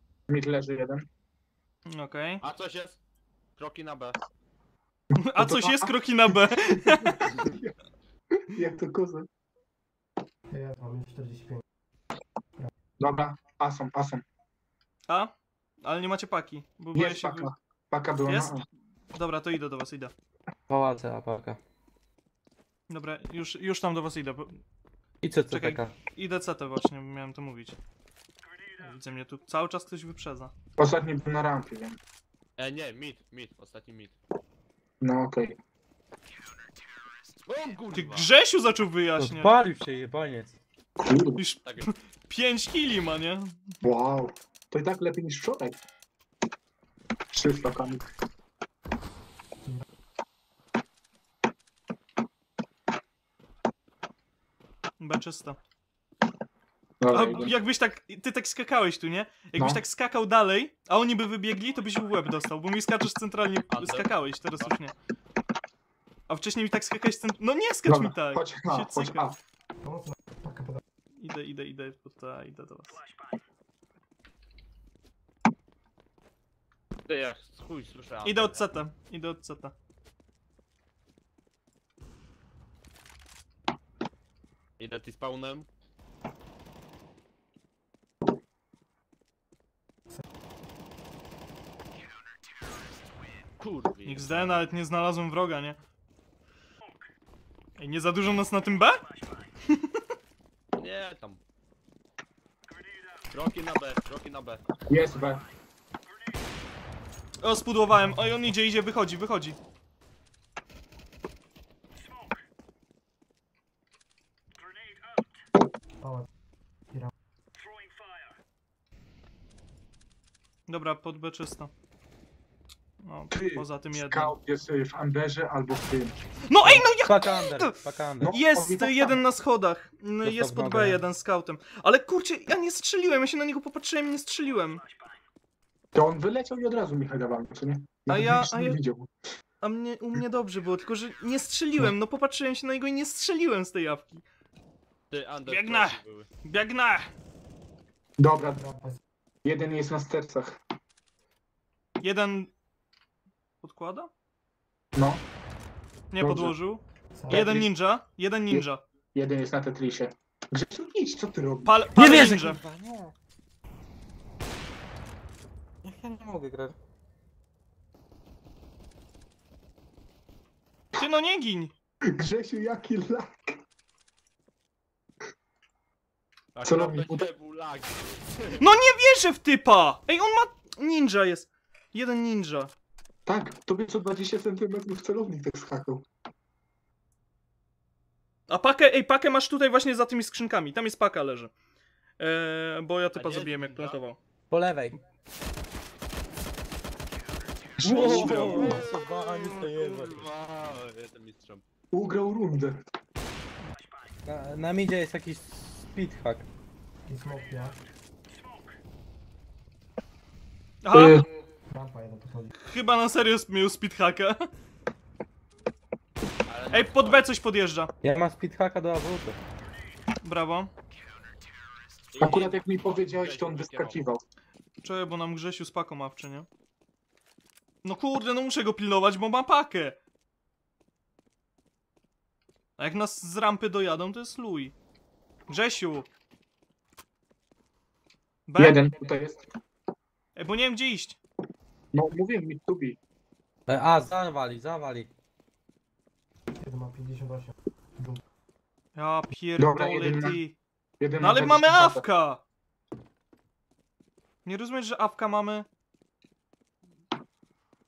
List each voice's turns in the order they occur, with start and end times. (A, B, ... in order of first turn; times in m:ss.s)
0:00.3-0:01.1 A
0:01.9-0:02.4 B
0:02.4-0:03.0 C
0:03.6-0:04.2 C
0:05.1-0:07.8 A
0:05.2-0:07.2 B
0:08.3-0:09.3 A
0:10.5-0:11.6 D
0:13.0-0:14.2 A
0:15.8-0:17.5 B
0:16.9-0:18.6 A
0:18.2-0:18.5 B
0:19.1-0:20.1 B
0:20.7-0:21.6 E
0:22.9-0:24.6 B
0:25.2-0:25.9 E
0:25.5-0:27.8 B
0:28.8-0:30.5 B
0:30.8-0:32.0 A
0:32.6-0:34.2 C
0:35.0-0:35.6 A
0:37.4-0:38.3 C
0:37.9-0:39.5 B
0:39.2-0:40.6 E
0:41.0-0:41.4 A
0:41.4-0:43.6 B
0:41.6-0:41.9 C
0:43.8-0:45.8 A
0:47.3-0:48.0 A
0:55.0-0:55.6 B
0:57.0-0:57.6 A
0:57.1-1:04.9 B
0:59.6-0:59.8 A
1:03.7-1:04.1 C
1:06.3-1:09.3 B
1:07.8-1:09.4 A
1:09.8-1:10.8 D
1:11.2-1:13.0 B
1:17.1-1:18.6 C
1:18.2-1:19.7 B
1:24.8-1:25.7 C
1:33.6-1:34.6 C
1:34.0-1:35.8 B
1:37.8-1:39.0 B
1:39.7-1:40.0 B
1:40.8-1:41.4 C
1:43.3-1:44.6 C
1:44.9-1:45.4 A
1:47.4-1:49.6 B
1:56.0-1:56.3 D
2:00.7-2:01.7 B
2:03.0-2:04.3 B
2:03.3-2:06.2 A
2:06.5-2:07.7 B
2:06.6-2:08.4 E
2:08.2-2:09.2 A
2:08.3-2:14.8 B
2:10.2-2:11.0 E
2:15.9-2:19.1 A
2:18.1-2:18.8 B
2:19.6-2:24.2 B
2:25.1-2:26.3 C
2:25.5-2:27.1 B
2:28.2-2:28.6 A
2:28.5-2:29.0 D
2:29.4-2:30.6 A
2:32.0-2:32.5 B
2:33.6-2:34.1 B
2:34.9-2:35.2 A
2:36.1-2:38.8 B
2:36.2-2:36.5 A
2:37.1-2:37.5 D
2:37.3-2:37.7 A
2:38.5-2:41.8 A
2:41.6-2:42.6 B
2:41.9-2:43.1 E
2:45.8-2:46.7 E
2:50.9-2:51.7 B
2:52.1-2:53.6 A
2:56.5-2:58.6 C
2:56.6-2:57.3 A
2:58.6-3:02.7 B
3:03.2-3:06.0 A
3:08.5-3:11.5 B
3:12.2-3:14.2 B
3:13.1-3:14.0 C
3:14.5-3:15.0 E
3:17.8-3:18.8 A
3:17.8-3:20.3 E
3:17.9-3:21.6 C
3:21.9-3:22.8 A
3:24.2-3:26.5 E
3:27.0-3:27.8 D
3:30.8-3:31.2 B
3:30.9-3:31.2 A
3:31.7-3:32.5 D
3:32.6-3:34.5 B
3:36.5-3:37.2 C
3:36.7-3:37.9 B
3:38.0-3:39.4 E
3:40.2-3:40.7 B
3:42.1-3:44.0 C
3:42.2-3:44.2 A
3:44.8-3:46.5 B
3:47.8-3:50.0 B
3:52.8-3:54.7 B
3:55.5-3:56.1 B
3:58.5-3:58.8 B
3:58.6-3:59.4 A
4:00.4-4:01.2 B
4:01.9-4:03.0 A
4:03.7-4:05.1 E
4:06.6-4:08.2 D
4:08.9-4:10.6 B
4:09.6-4:10.4 A
4:11.0-4:12.0 A
4:11.2-4:12.4 B
4:14.4-4:15.7 B